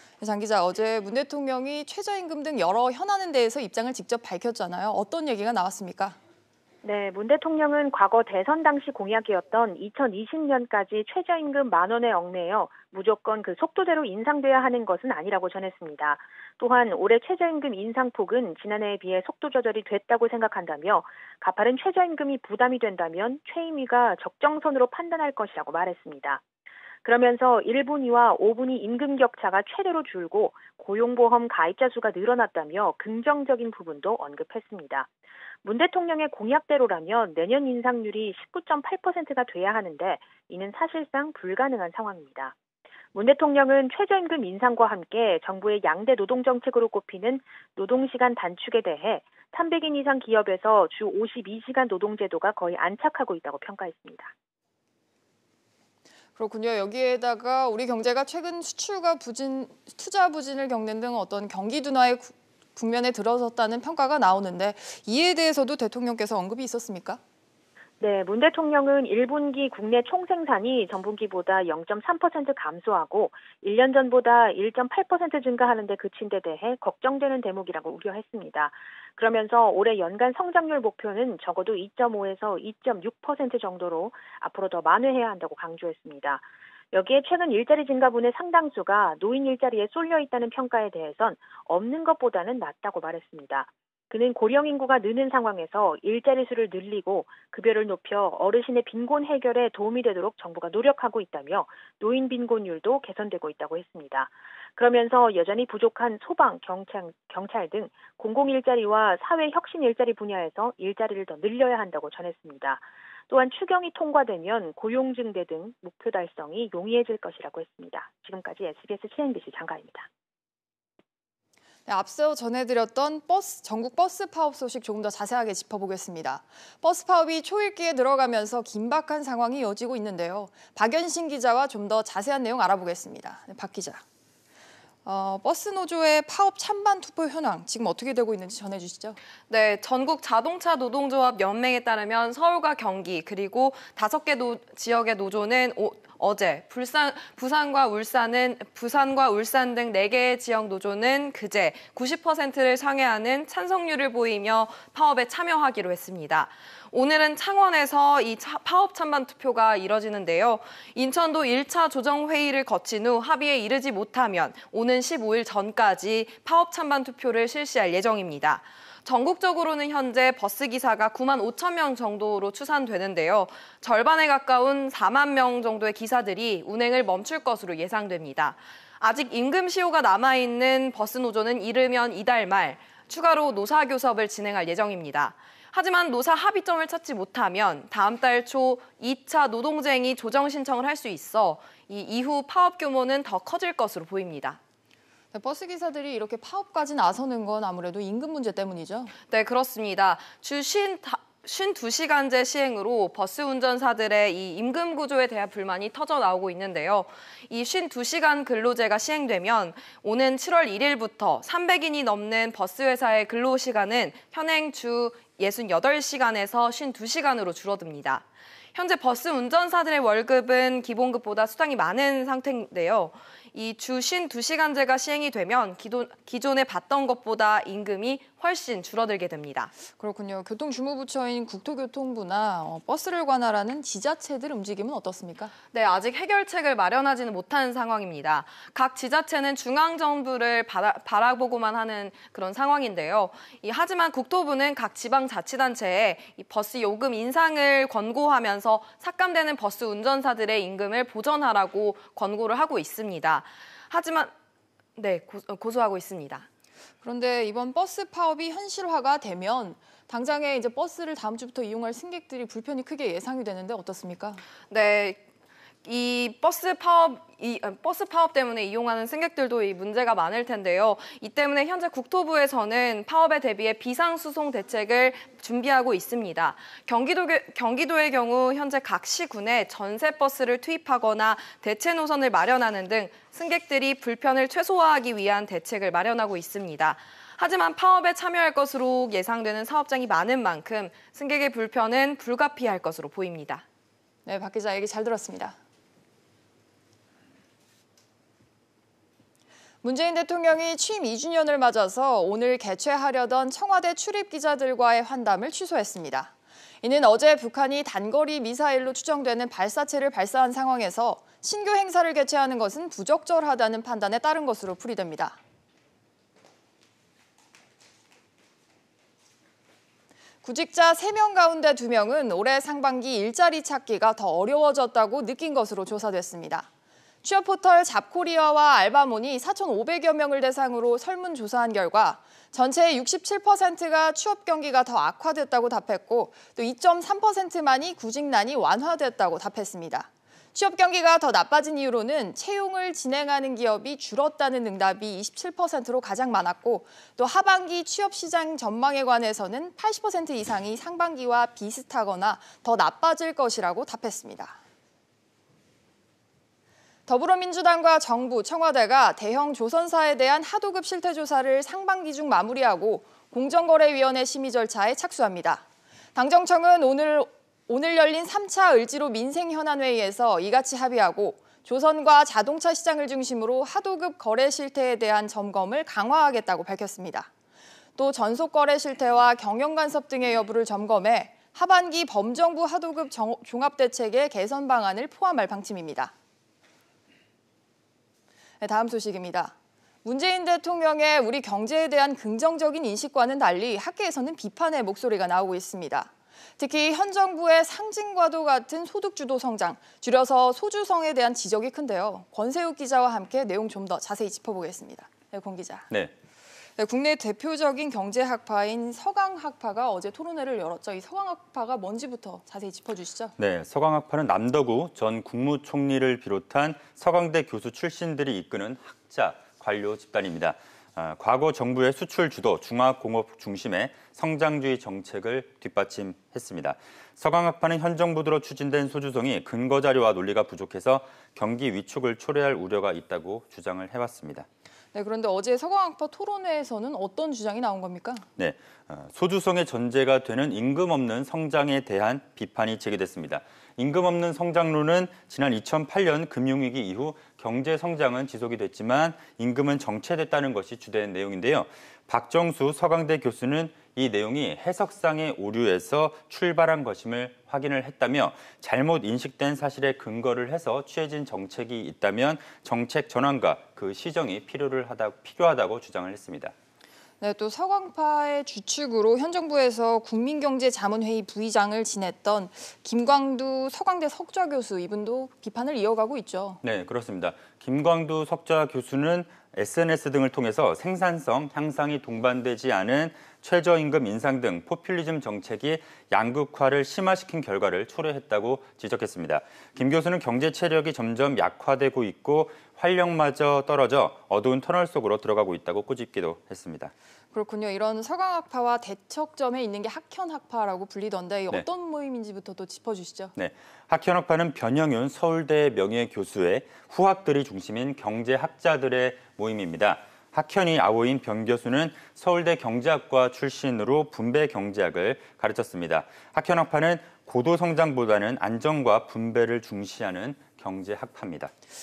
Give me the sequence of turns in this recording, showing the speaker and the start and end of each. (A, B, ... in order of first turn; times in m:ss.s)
0:00.2-0:06.2 A
0:06.8-0:26.4 B
0:27.0-0:35.1 B
0:35.6-0:42.6 B
0:43.1-0:54.3 B
0:56.4-1:07.2 A
1:08.0-2:00.1 B
2:01.9-2:14.0 A
2:15.0-2:19.2 A
2:19.5-3:14.6 C
3:15.3-3:19.1 A
3:19.3-3:49.7 C
3:49.9-3:55.5 A
3:55.7-4:14.3 C
4:15.0-4:16.5 C
4:17.0-4:24.4 A
4:24.7-4:25.2 C
4:25.8-4:53.6 C
4:54.3-4:55.6 A
4:59.8-5:15.4 A
5:20.4-5:26.7 A
5:27.2-5:54.6 A
5:57.1-6:17.3 A
6:18.0-6:26.1 A
6:28.6-6:45.9 A
6:46.8-6:53.4 A
6:53.4-7:14.5 D
7:14.9-7:18.3 A
7:18.4-7:46.5 D
7:47.2-7:56.6 A
7:56.6-8:16.9 D
8:17.3-8:23.3 A
8:23.4-8:41.5 D